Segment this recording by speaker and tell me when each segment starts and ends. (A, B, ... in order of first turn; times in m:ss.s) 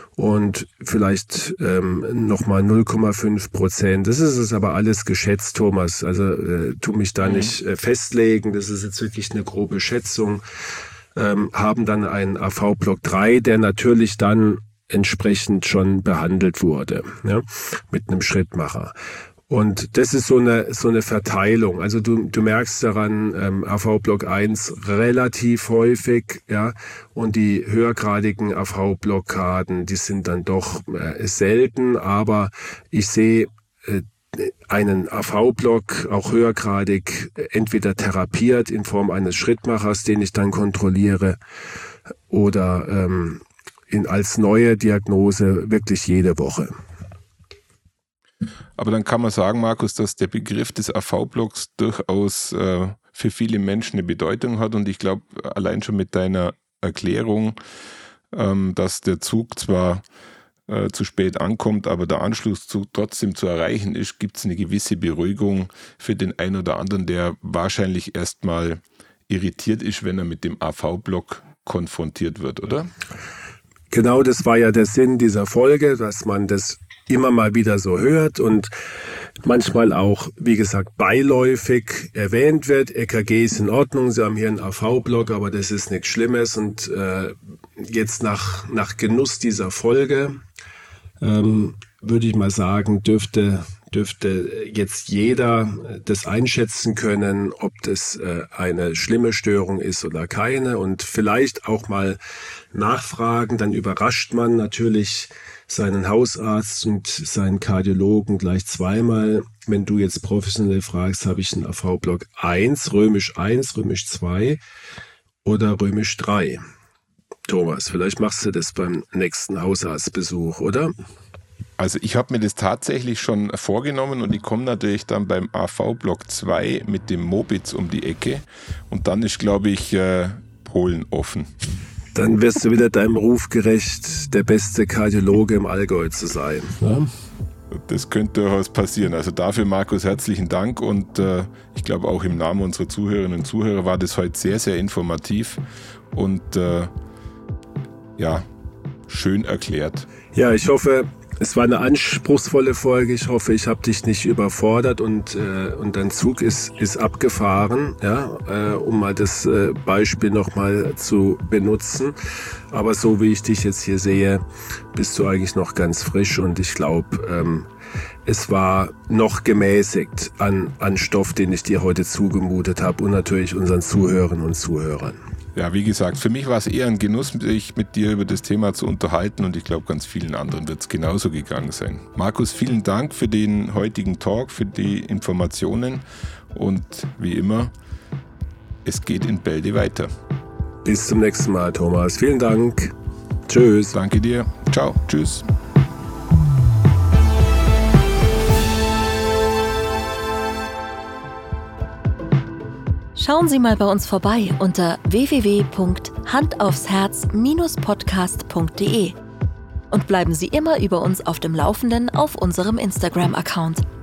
0:00.2-0:10.4 A
0:07.2-0:07.5 B
0:11.2-0:18.9 A
0:19.5-0:41.4 A
0:42.3-0:46.7 A
0:48.8-0:57.6 B
0:58.3-1:00.0 B
1:00.7-1:12.9 B
1:13.9-1:18.7 A
1:19.4-1:30.4 A
1:31.2-1:42.2 A
1:42.7-1:54.6 A
1:55.4-1:56.6 A
1:57.5-2:00.9 A
2:01.8-2:11.5 B
2:12.1-2:17.1 A
2:17.7-2:25.6 B
2:26.1-2:26.9 B
2:28.2-2:28.5 B
2:29.1-2:30.1 B
2:30.3-2:42.2 A
2:42.7-2:47.7 A
2:48.3-2:55.2 A
2:55.6-3:07.7 B
3:08.8-3:10.1 B
3:10.8-3:12.9 A
3:13.5-3:13.9 A
3:13.9-3:15.5 B
3:23.2-3:29.2 C
3:29.9-3:33.8 C